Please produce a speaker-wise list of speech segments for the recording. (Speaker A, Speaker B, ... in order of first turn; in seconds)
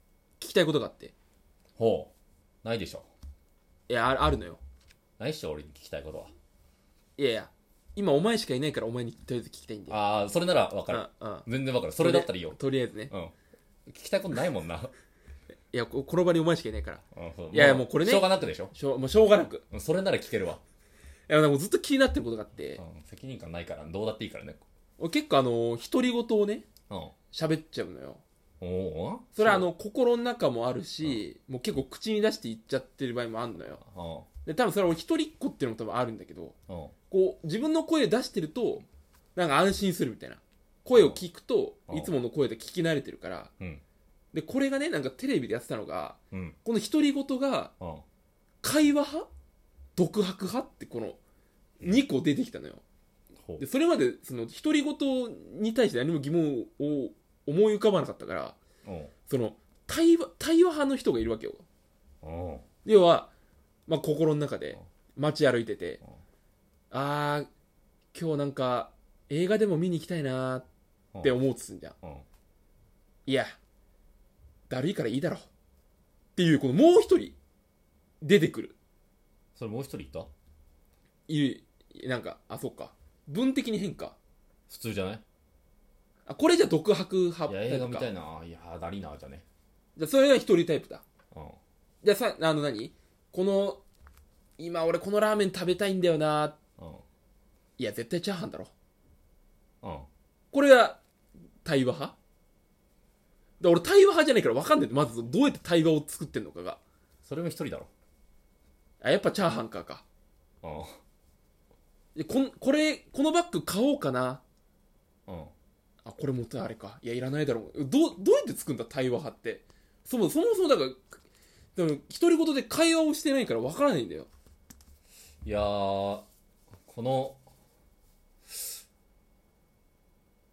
Speaker A: 0.4-1.1, 3.9-4.6, 7.2-10.0, 10.9-11.5, 12.0-13.1, 15.7-19.6, 21.3-22.8, 25.0-26.6, 27.3-28.2, 29.4-33.8, 34.5-36.6, 37.1-43.5, 44.3-47.7, 48.6-49.3, 50.0-51.2, 51.8-52.8, 53.6-58.6, 59.3-61.6, 62.9-63.3, 63.9-66.0, 66.9-67.5, 68.1-70.7, 71.2-72.0, 74.7-75.5, 76.4-77.4, 78.2-78.8, 81.3-84.2, 86.3-88.1, 90.0-91.0, 92.0-93.8, 94.6-96.6, 97.8-98.7, 100.5-101.0, 101.6-102.2, 103.6-106.8, 109.0-110.0, 112.2-114.4, 116.0-121.1, 121.8-124.3
Speaker B: 1.8-2.1, 2.6-3.1, 5.2-6.3, 9.9-12.6, 13.9-14.9, 17.1-18.7, 19.7-20.6, 22.8-24.6, 28.6-29.7, 33.8-34.3, 36.7-37.0, 40.9-41.2, 41.9-42.1, 46.3-46.6, 58.8-59.1, 62.2-62.6, 79.5-80.3, 84.7-85.2, 87.5-89.4, 91.3-91.6, 96.8-97.0, 99.8-100.1, 107.2-107.9, 110.6-111.0, 115.3-115.5, 125.4-126.3, 126.9-127.4, 128.5-128.8